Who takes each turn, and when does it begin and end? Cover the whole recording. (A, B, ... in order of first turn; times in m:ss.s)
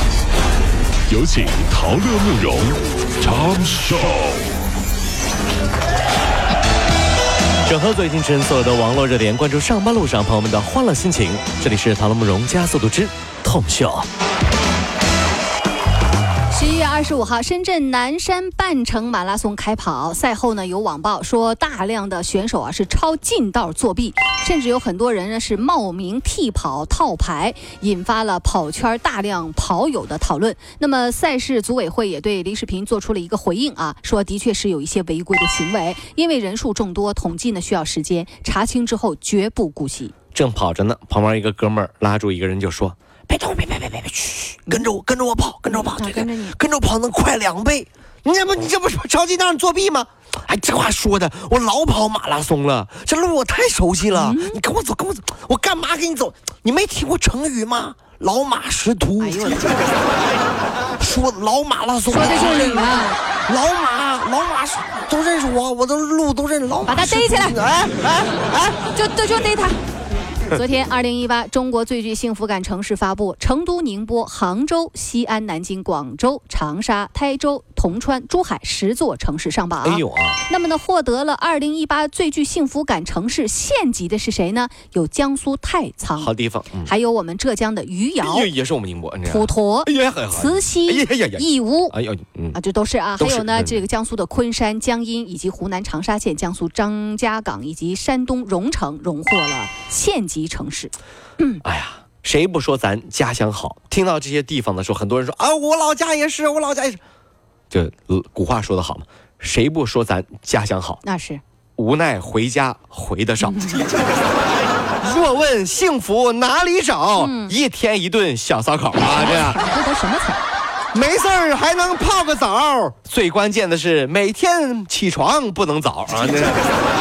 0:01.1-0:04.5 A
0:07.6-0:14.1 B
0:16.5-0:40.1 C
0:40.3-0:59.6 B
0:45.7-0:46.6 C
0:54.1-0:54.6 C
0:59.2-0:59.8 C
1:01.0-1:08.8 B
1:02.1-1:03.2 C
1:06.8-1:07.6 C
1:08.9-1:09.8 C
1:10.5-1:26.3 C
1:19.8-1:20.4 B
1:26.2-1:26.9 B
1:26.8-1:28.5 C
1:28.2-1:32.6 B
1:29.2-1:31.9 C
1:32.5-1:41.6 C
1:33.2-1:33.8 B
1:41.6-1:47.0 B
1:47.7-1:51.0 B
1:51.0-1:51.4 C
1:51.8-1:53.7 B
1:53.4-1:53.9 C
1:55.0-1:59.6 B
1:57.2-1:57.6 C
1:59.2-2:00.4 C
2:00.9-2:06.7 B